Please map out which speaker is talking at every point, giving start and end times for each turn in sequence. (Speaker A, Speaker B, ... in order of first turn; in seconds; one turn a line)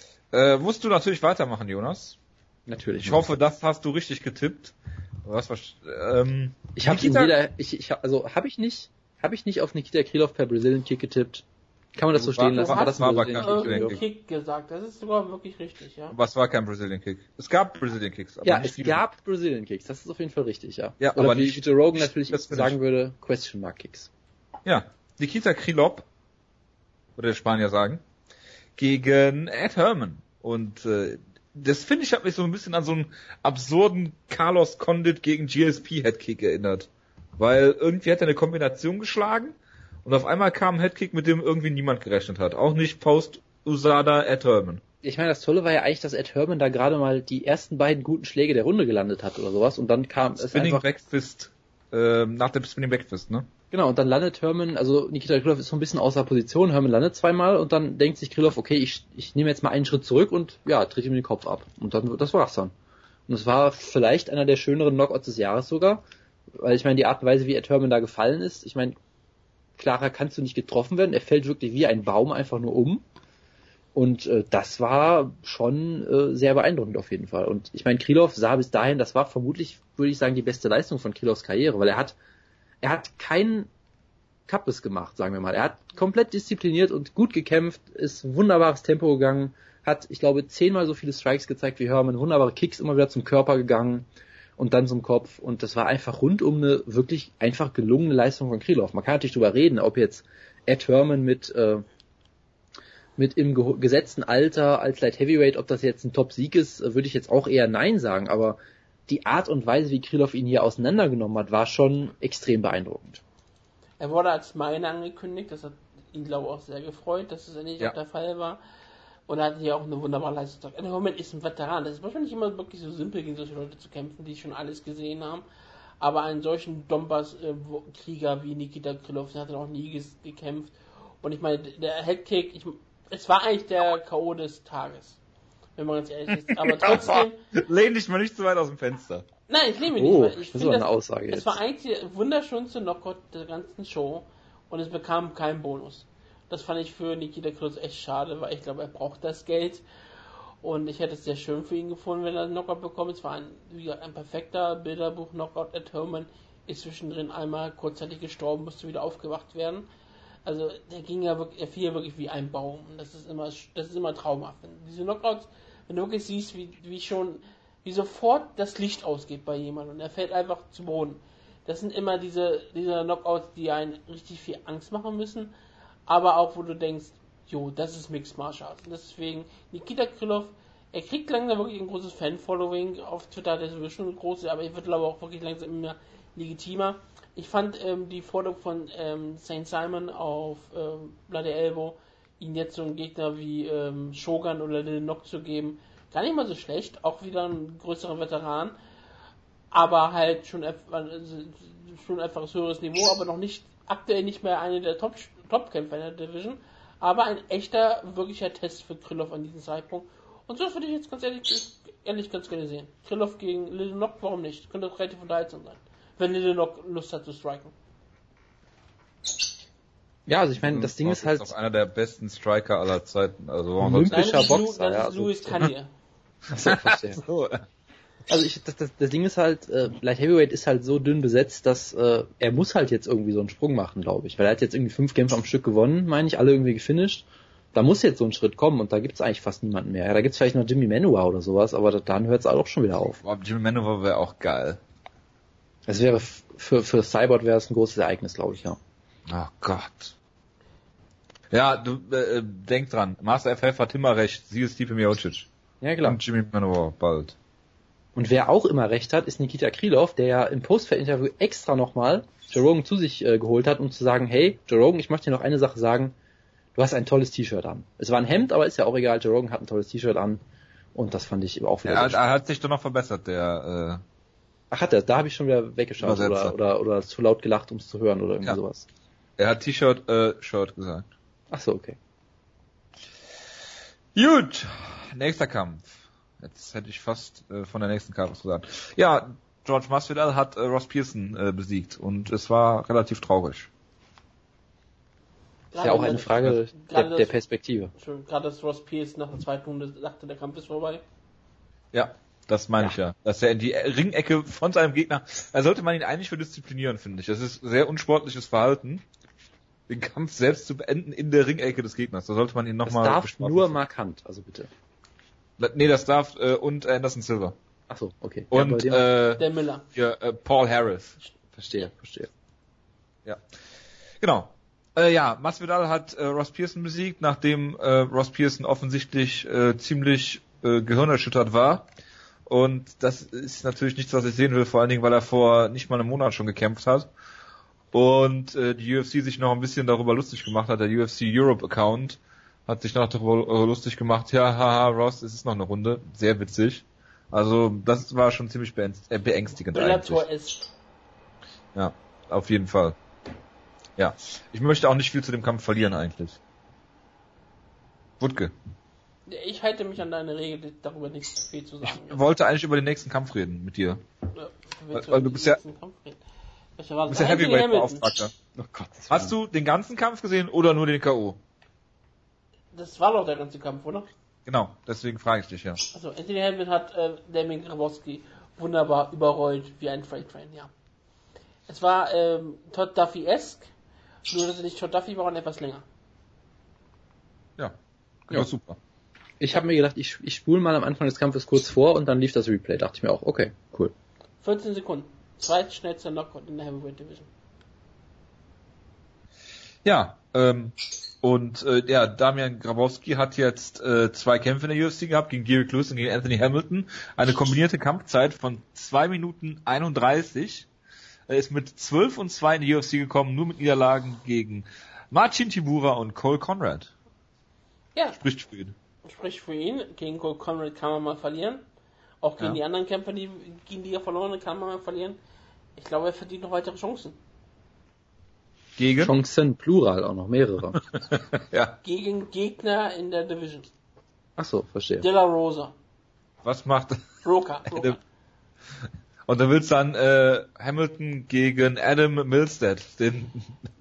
Speaker A: 0.3-2.2
Speaker B: 2.7-3.3
Speaker A: 3.0-7.3
Speaker B: 6.8-14.0
Speaker A: 12.1-14.0
Speaker C: 12.5-16.2
Speaker A: 16.1-19.0
Speaker B: 18.4-24.1
Speaker A: 21.0-22.8
Speaker A: 24.6-26.1
Speaker A: 27.2-28.0
Speaker A: 28.8-44.8
Speaker B: 45.0-50.9
Speaker A: 50.4-53.5
Speaker B: 53.7-62.7
Speaker B: 63.3-66.0
Speaker B: 66.6-69.0
Speaker B: 69.8-73.0
Speaker B: 74.0-82.2
Speaker B: 82.8-83.7
Speaker B: 84.5-94.1
Speaker B: 94.6-101.8
Speaker B: 103.2-113.2
Speaker C: 114.0-118.6
Speaker C: 119.3-125.5
Speaker C: 126.0-135.2
Speaker C: 135.8-137.4
Speaker A: 136.5-139.2
Speaker C: 139.5-149.8
Speaker B: 139.9-141.6
Speaker C: 150.6-159.9
Speaker C: 160.5-175.5
Speaker C: 176.1-198.8
Speaker C: 199.7-217.7
Speaker B: 220.3-221.5
Speaker A: 220.6-224.5
Speaker B: 223.8-225.7
Speaker C: 224.1-225.9
Speaker B: 226.5-227.2
Speaker A: 226.6-227.6
Speaker B: 228.3-243.2
Speaker A: 243.2-244.8
Speaker B: 245.9-248.8
Speaker A: 249.3-250.2
Speaker A: 251.5-255.5
Speaker B: 255.8-256.2
Speaker A: 256.0-257.4
Speaker B: 258.1-266.1
Speaker B: 266.8-270.4
Speaker B: 270.9-272.2
Speaker A: 271.9-274.0
Speaker B: 274.7-278.9
Speaker A: 276.0-276.5
Speaker A: 279.4-281.1
Speaker B: 281.5-282.0
Speaker A: 284.1-293.7
Speaker C: 295.7-297.3
Speaker B: 295.8-297.9
Speaker C: 298.0-301.0
Speaker A: 301.9-309.0
Speaker A: 309.9-313.8
Speaker B: 312.9-314.7
Speaker A: 315.6-317.6
Speaker B: 317.9-319.0
Speaker A: 318.5-321.2
Speaker C: 319.4-319.9
Speaker B: 321.6-322.3
Speaker A: 324.2-331.9
Speaker A: 332.5-337.1
Speaker A: 337.9-350.2
Speaker C: 349.7-350.7
Speaker A: 351.8-353.0
Speaker A: 354.0-356.4
Speaker A: 358.2-358.5
Speaker C: 359.3-362.2
Speaker A: 361.8-364.0
Speaker C: 364.3-366.2
Speaker A: 364.9-365.6
Speaker C: 366.8-368.1
Speaker A: 367.1-368.3
Speaker B: 368.6-369.3
Speaker A: 369.1-371.4
Speaker C: 372.7-374.1
Speaker A: 374.5-375.8
Speaker C: 375.9-380.7
Speaker C: 381.7-383.7
Speaker C: 384.3-385.9
Speaker A: 388.3-388.8
Speaker B: 389.4-393.9
Speaker C: 394.4-397.3
Speaker A: 399.9-410.7
Speaker A: 411.3-416.9
Speaker A: 418.2-418.7
Speaker C: 419.1-421.6
Speaker C: 422.2-425.2
Speaker C: 425.8-427.2
Speaker A: 428.8-429.1
Speaker B: 429.0-430.8
Speaker A: 430.9-431.8
Speaker C: 431.8-433.7
Speaker B: 434.4-435.1
Speaker C: 435.0-435.7
Speaker A: 436.4-437.1
Speaker C: 437.2-438.0
Speaker A: 437.7-438.0
Speaker A: 439.3-443.5